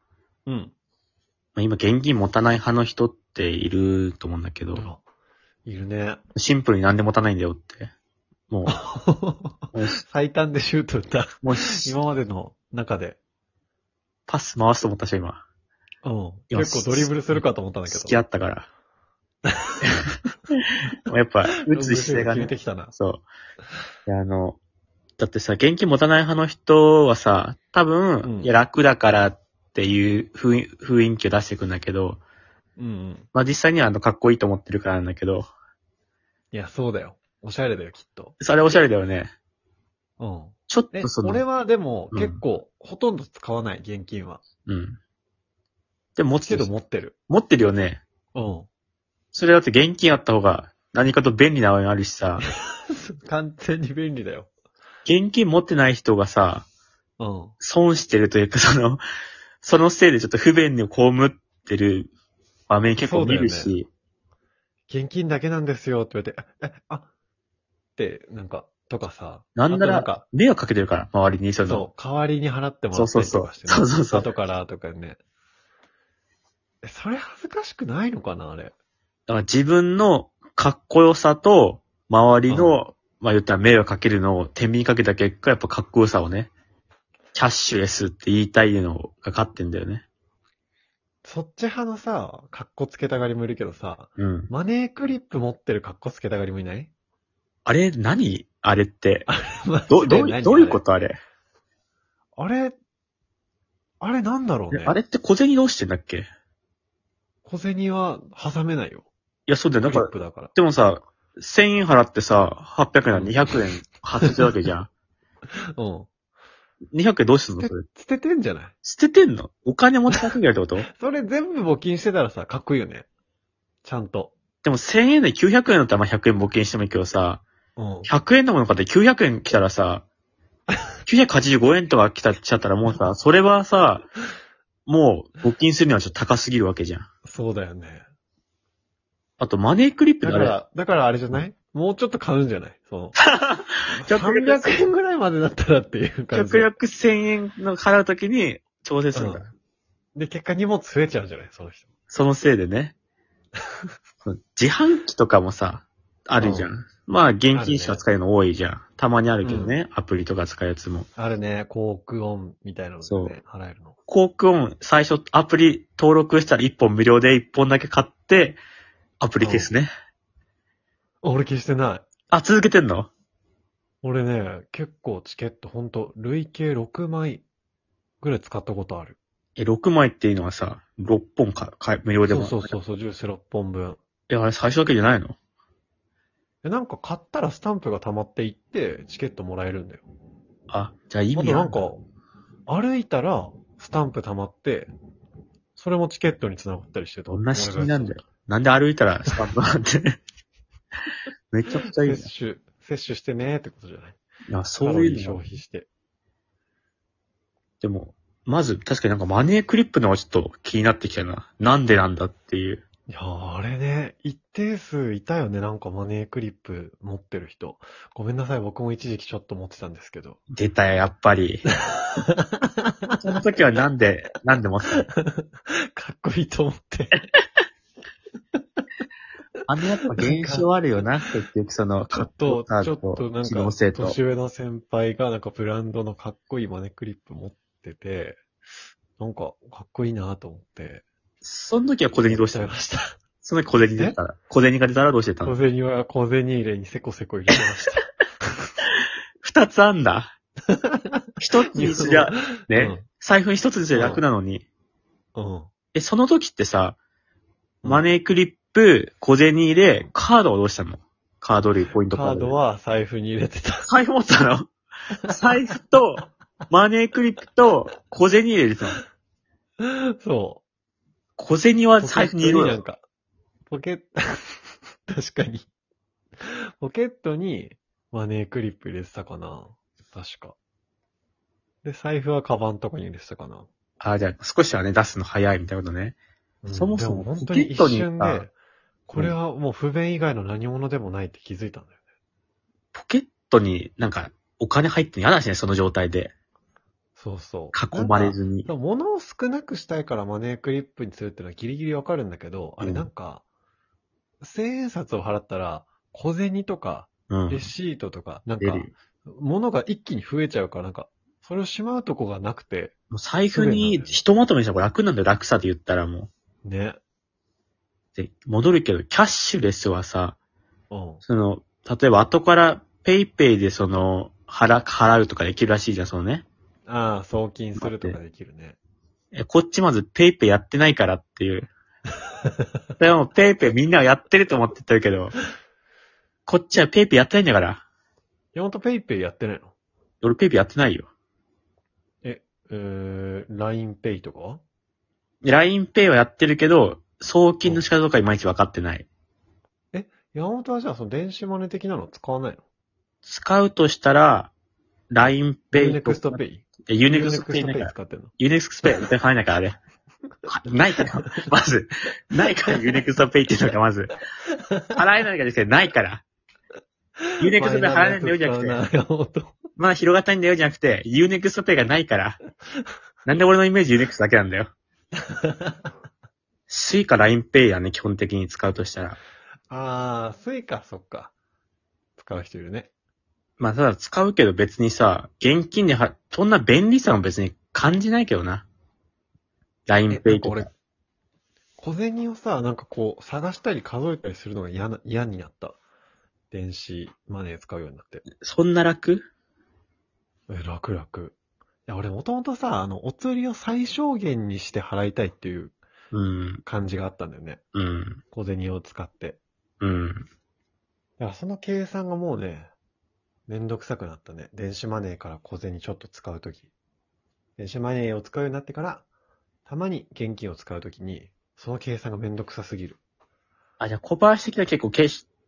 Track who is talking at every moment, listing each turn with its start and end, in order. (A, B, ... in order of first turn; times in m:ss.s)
0:00.4-0:00.7 A
0:01.6-0:04.8 B
0:04.7-0:05.0 A
0:05.6-0:06.2 A
0:06.4-0:07.9 B
0:08.5-0:08.8 B
0:08.6-0:13.2 A
0:09.7-0:10.0 B
0:11.4-0:11.9 B
0:14.3-0:15.4 B
0:16.0-0:18.2 A
0:16.5-0:18.7 B
0:19.6-0:19.9 A
0:19.8-0:23.3 B
0:21.6-0:22.9 A
0:24.1-0:24.6 B
0:25.2-0:32.2 B
0:28.2-0:28.5 A
0:32.8-0:33.3 A
0:33.3-0:35.5 B
0:36.5-0:38.4 A
0:38.4-0:39.3 B
0:40.2-0:44.4 A
0:40.7-0:41.4 B
0:42.1-0:42.4 B
0:44.6-0:45.0 B
0:46.2-0:46.7 B
0:46.4-0:47.1 A
0:47.3-0:48.0 B
0:48.3-0:48.7 A
0:49.3-0:52.4 B
0:52.9-0:54.5 A
0:55.0-0:56.6 B
0:57.2-0:57.5 A
0:57.6-0:59.0 B
0:59.6-1:02.1 B
1:02.7-1:03.9 B
1:03.0-1:03.7 A
1:04.9-1:07.1 A
1:08.0-1:10.2 A
1:09.6-1:11.9 B
1:11.6-1:15.2 A
1:12.9-1:14.3 B
1:16.8-1:18.7 A
1:19.3-1:26.5 B
1:22.5-1:22.8 A
1:27.3-1:30.0 B
1:31.2-1:36.9 A
1:34.2-1:34.5 B
1:37.6-1:39.3 B
1:39.3-1:40.8 A
1:39.9-1:41.2 B
1:42.4-1:42.7 A
1:44.0-1:45.0 A
1:44.7-1:46.3 B
1:47.4-1:49.1 A
1:49.5-1:54.9 B
1:49.8-1:50.5 A
1:53.1-1:53.5 A
1:55.7-1:56.1 A
1:56.9-1:57.8 B
1:57.6-1:58.7 A
1:58.8-2:00.9 B
2:00.9-2:03.1 A
2:03.8-2:04.3 A
2:04.6-2:07.4 B
2:07.8-2:08.1 A
2:08.0-2:10.0 B
2:11.0-2:14.0 B
2:14.8-2:17.1 B
2:17.2-2:18.0 A
2:19.4-2:20.5 B
2:20.2-2:23.2 A
2:23.2-2:24.8 B
2:23.9-2:26.7 A
2:26.3-2:29.5 B
2:29.1-2:29.5 A
2:30.2-2:31.9 A
2:32.1-2:32.9 B
2:34.2-2:41.1 B
2:36.4-2:36.7 A
2:37.5-2:38.0 A
2:39.4-2:39.8 A
2:41.2-2:44.0 A
2:43.0-2:43.3 B
2:44.1-2:48.6 B
2:49.2-2:49.9 B
2:49.4-2:49.7 A
2:51.2-2:52.0 A
2:52.3-2:53.1 B
2:54.0-2:57.4 A
2:58.2-2:59.2 A
2:59.6-3:02.8 B
3:02.3-3:04.0 A
3:04.3-3:05.4 B
3:06.6-3:10.0 A
3:10.7-3:11.9 B
3:11.3-3:12.0 A
3:12.7-3:14.9 A
3:15.8-3:18.2 A
3:17.3-3:20.2 B
3:21.5-3:22.3 B
3:21.8-3:24.2 A
3:24.5-3:25.6 B
3:24.8-3:25.9 A
3:27.8-3:32.8 B
3:33.1-3:40.4 A
3:40.5-3:41.6 B
3:41.8-3:43.2 A
3:43.2-3:45.0 B
3:45.0-3:47.2 A
3:49.7-3:54.2 B
3:50.2-3:50.7 A
3:52.2-3:58.4 A
3:59.2-4:01.0 A
4:01.4-4:02.7 B
4:02.2-4:03.1 A
4:03.4-4:05.5 B
4:03.9-4:04.2 A
4:05.4-4:08.0 A
4:09.4-4:10.3 B
4:10.7-4:13.0 A
4:11.4-4:14.6 B
4:13.9-4:14.2 A
4:15.4-4:15.7 A
4:15.9-4:17.0 B
4:17.8-4:22.5 B
4:22.0-4:23.9 A
4:23.8-4:24.7 B
4:25.3-4:25.6 A
4:25.3-4:29.0 B
4:29.8-4:30.6 A
4:31.4-4:32.8 B
4:32.0-4:33.0 A
4:33.7-4:35.7 A
4:36.4-4:40.6 A
4:41.8-4:43.7 A
4:44.0-4:46.2 B
4:46.6-4:48.5 A
4:46.7-4:48.4 B
4:49.1-4:52.0 A
4:52.9-4:56.3 B
4:57.2-5:03.4 A
4:57.7-4:58.7 B
5:02.8-5:03.0 B
5:04.4-5:12.9 A
5:07.3-5:07.7 B
5:08.6-5:08.9 B
5:13.1-5:16.3 B
5:13.5-5:14.2 A
5:16.6-5:17.0 A
5:18.2-5:20.4 B
5:20.9-5:21.2 A
5:21.2-5:26.4 B
5:26.9-5:28.8 A
5:27.8-5:28.2 B
5:29.3-5:31.7 B
5:33.0-5:35.4 B
5:36.4-5:37.8 B
5:38.5-5:39.7 A
5:40.2-5:41.1 B
5:42.2-5:44.6 A
5:45.4-5:49.1 B
5:49.9-5:52.6 A
5:53.2-5:54.5 B
5:55.1-5:59.8 B
5:55.7-5:58.3 A
6:00.4-6:04.2 B
6:04.5-6:05.0 A
6:04.9-6:06.2 B
6:07.4-6:09.6 A
6:07.4-6:08.8 B
6:09.8-6:12.4 B
6:13.2-6:14.7 B
6:15.3-6:15.8 A
6:16.7-6:19.2 B
6:19.7-6:21.3 A
6:22.2-6:22.9 A
6:23.6-6:28.6 B
6:29.9-6:30.7 B
6:30.1-6:30.7 A
6:31.8-6:35.8 A
6:36.5-6:38.2 A
6:38.4-6:39.3 B
6:40.5-6:41.4 A
6:41.9-6:45.7 A
6:46.1-6:46.6 B
6:46.6-6:47.6 A
6:47.7-6:48.2 B
6:48.3-6:49.4 A
6:49.8-6:50.3 B
6:51.2-6:52.7 A
6:53.5-6:56.7 A
6:57.6-6:59.0 A
6:59.7-7:03.0 A
7:03.8-7:05.2 B